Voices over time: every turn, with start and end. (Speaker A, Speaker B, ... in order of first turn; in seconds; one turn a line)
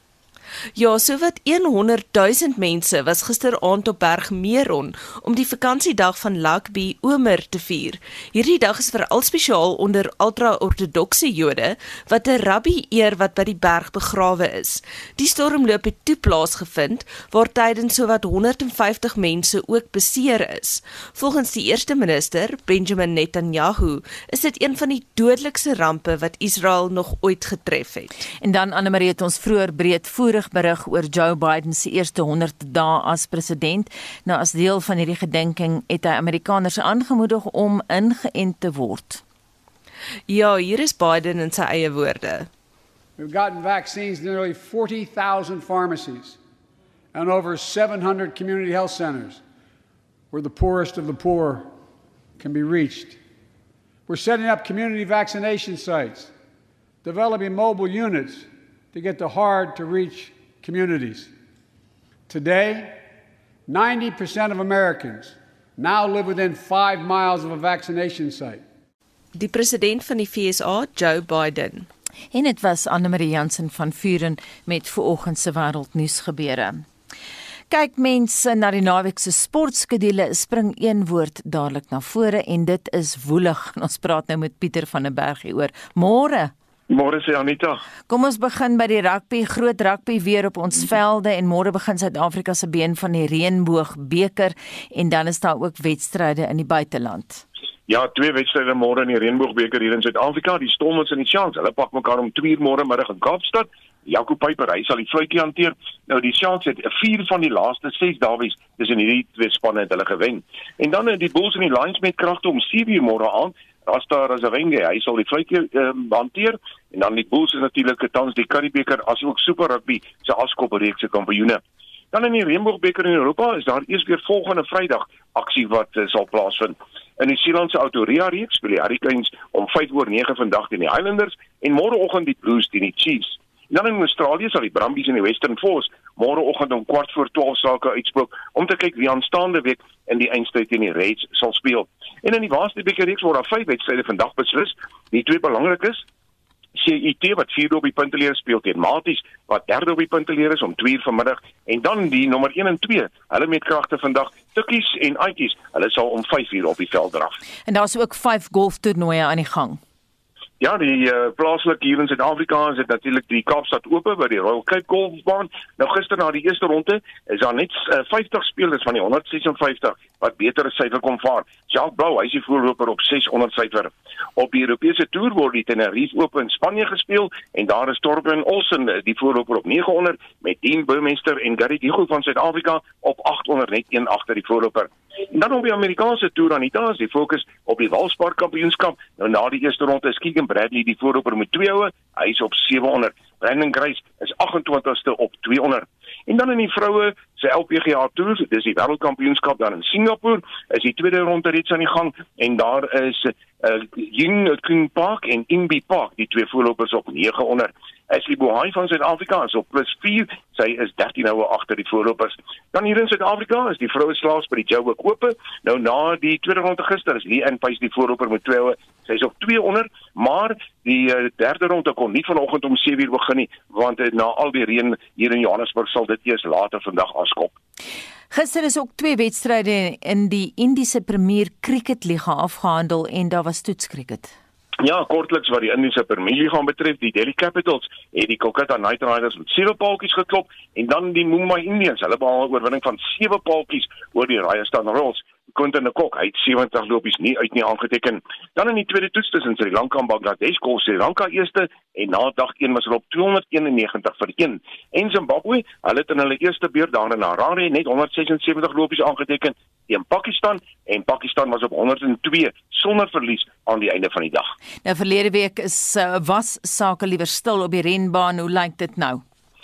Speaker A: 0.8-28.1
Speaker B: 28.4-39.2
Speaker A: 40.3-42.5
Speaker C: 43.2-46.4
Speaker C: 47.1-49.4
Speaker C: 50.3-51.7
Speaker C: 52.4-53.2
Speaker C: 54.1-56.3
Speaker C: 57.0-61.3
Speaker C: 62.3-63.0
Speaker C: 63.7-68.6
Speaker A: 69.3-71.9
Speaker B: 72.3-76.8
Speaker B: 77.7-86.5
Speaker D: 86.9-87.8
Speaker B: 88.1-97.4
Speaker D: 97.9-121.6
Speaker D: 122.1-146.0
Speaker D: 146.8-157.3
Speaker B: 157.7-159.8
Speaker D: 160.6-227.6
Speaker B: 228.3-234.3
Speaker D: 234.8-264.5
Speaker B: 264.8-269.2